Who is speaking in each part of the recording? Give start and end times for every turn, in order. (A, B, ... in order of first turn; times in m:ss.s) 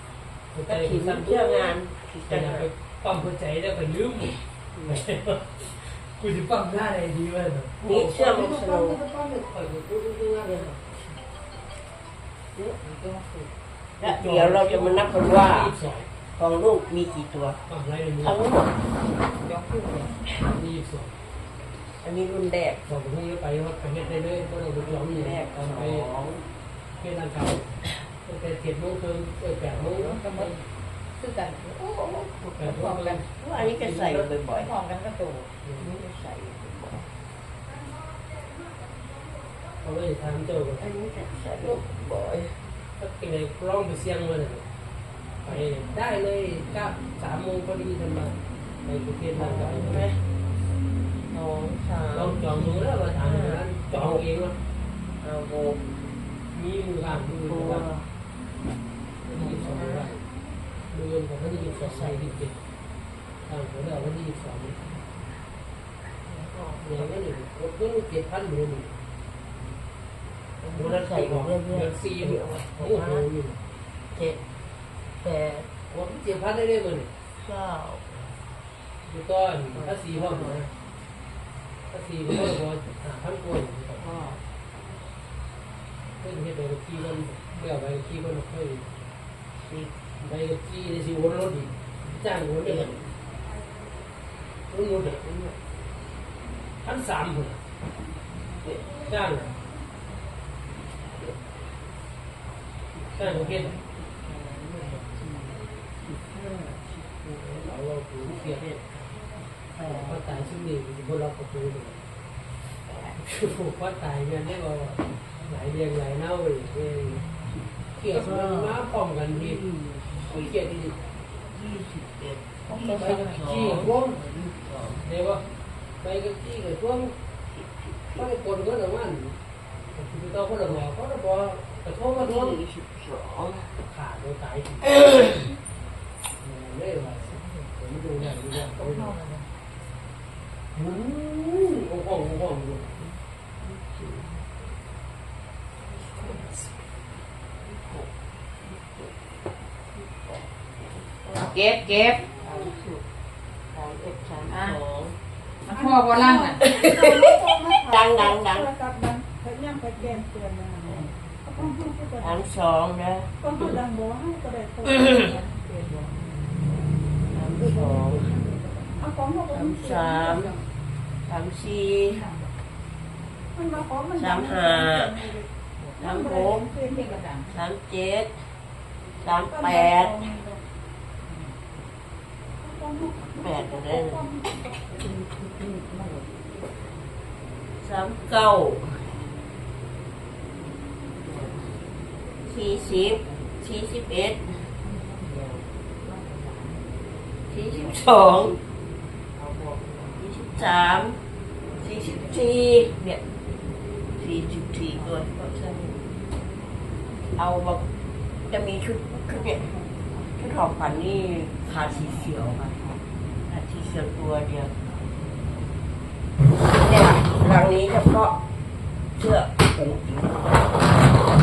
0:00.5-0:01.8 A
0:00.7-0:02.7 B
0:02.2-0:10.7 A
0:04.7-0:05.0 B
0:07.8-0:09.0 B
0:10.5-0:11.0 B
0:12.8-0:13.5 C
0:14.0-0:15.8 B
0:14.0-0:16.1 A
0:16.4-0:17.6 B
0:17.7-0:18.4 A
0:18.2-0:18.8 B
0:19.2-0:20.2 C
0:20.4-0:21.1 A
0:22.0-0:22.8 B
0:22.9-0:26.1 A
0:25.0-0:26.4 B
0:27.0-0:30.4 A
0:29.9-0:30.7 C
0:31.2-0:31.7 C
0:31.6-0:32.8 B
0:32.6-0:34.2 A
0:32.6-0:33.3 C
0:33.4-0:34.8 B
0:34.2-0:35.5 C
0:35.8-0:37.1 B
0:39.8-0:40.8 A
0:40.8-0:42.6 B
0:43.0-0:44.7 A
0:45.4-0:50.1 A
0:49.3-0:50.2 B
0:51.3-0:54.2 B
0:52.1-0:54.6 A
0:55.2-0:55.9 B
0:56.5-0:57.9 A
0:57.5-0:58.1 B
0:59.3-1:00.2 A
0:59.3-1:00.2 B
1:00.9-1:02.6 A
1:01.5-1:02.5 B
1:03.5-1:04.8 A
1:06.2-1:07.1 B
1:06.8-1:09.0 A
1:10.6-1:13.2 B
1:10.7-1:13.6 A
1:14.1-1:14.4 B
1:15.2-1:15.7 B
1:15.9-1:17.1 A
1:17.4-1:18.2 B
1:19.0-1:20.7 A
1:19.7-1:20.7 B
1:21.9-1:24.1 A
1:24.0-1:24.4 B
1:26.2-1:28.9 A
1:29.6-1:30.0 B
1:30.2-1:33.0 A
1:32.6-1:33.1 B
1:34.7-1:35.2 A
1:35.2-1:35.6 B
1:36.8-1:37.6 A
1:38.9-1:39.6 A
1:42.9-1:47.7 B
1:43.1-1:43.8 A
1:47.6-1:48.6 A
1:48.3-1:50.2 B
1:49.8-1:52.0 A
1:52.8-1:53.2 B
1:53.2-1:57.2 A
1:57.6-2:00.5 B
1:58.0-1:59.6 A
2:00.3-2:01.0 A
2:01.5-2:05.0 B
2:02.9-2:04.2 A
2:05.0-2:05.4 A
2:06.0-2:07.2 A
2:07.5-2:08.3 B
2:08.2-2:09.4 A
2:09.9-2:12.6 A
2:12.1-2:13.8 B
2:13.8-2:15.2 A
2:14.9-2:15.3 B
2:16.4-2:19.2 A
2:18.8-2:19.5 C
2:20.7-2:23.0 A
2:23.0-2:24.5 B
2:27.6-2:28.1 B
2:28.6-2:29.1 B
2:30.0-2:30.4 B
2:31.2-2:31.7 B
2:31.3-2:32.2 C
2:32.2-2:33.0 B
2:33.7-2:35.2 B
2:34.5-2:34.8 C
2:35.6-2:36.6 C
2:35.7-2:42.2 D
2:36.6-2:38.7 B
2:40.9-2:43.8 B
2:43.4-2:46.1 D
2:47.3-2:48.4 B
2:48.4-2:49.2 C
2:49.0-2:50.5 D
2:49.5-2:50.6 B
2:51.2-2:52.4 B
2:53.6-2:57.1 D
2:54.1-2:55.4 B
2:56.0-2:56.7 B
2:56.9-2:57.5 C
2:57.5-2:58.5 B
2:59.2-3:00.4 B
2:59.5-3:00.6 D
3:01.3-3:01.6 C
3:02.6-3:05.0 D
3:03.3-3:04.3 B
3:05.0-3:06.3 C
3:07.8-3:09.2 B
3:11.2-3:11.8 B
3:12.4-3:14.7 B
3:14.8-3:15.3 C
3:15.3-3:15.6 B
3:16.0-3:16.9 C
3:17.5-3:18.6 B
3:19.4-3:20.1 C
3:20.1-3:21.2 B
3:21.8-3:23.2 B
3:24.2-3:25.3 B
3:25.2-3:26.0 C
3:27.4-3:27.9 B
3:28.5-3:32.8 B
3:33.5-3:34.8 B
3:36.5-3:38.4 B
3:39.1-3:40.7 B